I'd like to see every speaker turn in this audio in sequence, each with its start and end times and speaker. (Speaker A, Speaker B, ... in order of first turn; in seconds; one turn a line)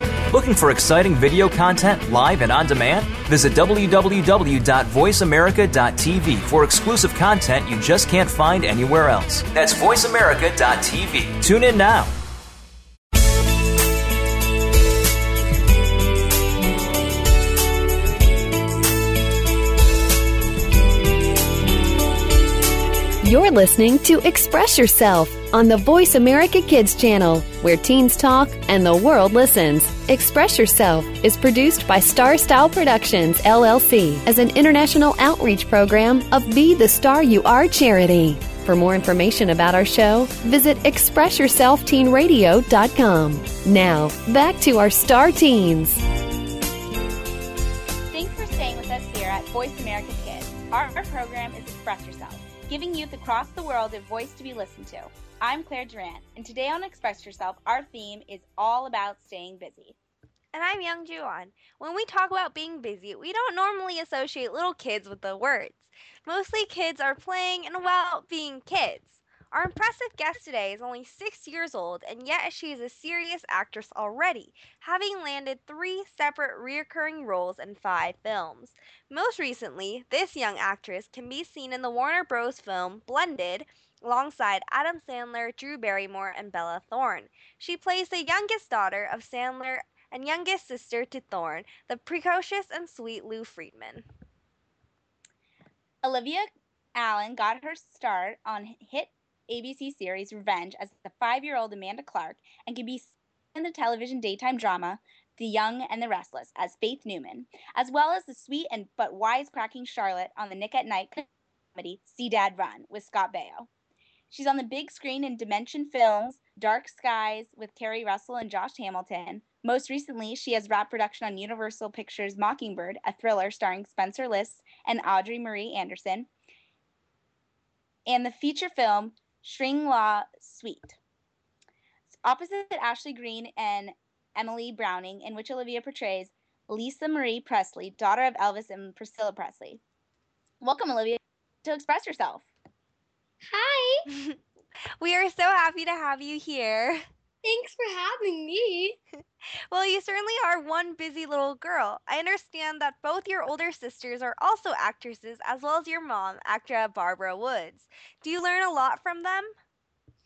Speaker A: 0.3-12.1
Speaker B: 23.2-46.0
Speaker C: 48.1-60.0
Speaker D: 60.5-94.0
Speaker C: 96.0-113.7
Speaker C: 114.3-126.3
Speaker C: 128.1-131.0
Speaker C: 132.1-139.8
Speaker C: 140.6-142.5
Speaker E: 143.5-144.1
Speaker D: 144.1-144.4
Speaker D: 145.0-147.0
Speaker E: 147.4-149.0
Speaker D: 149.7-159.5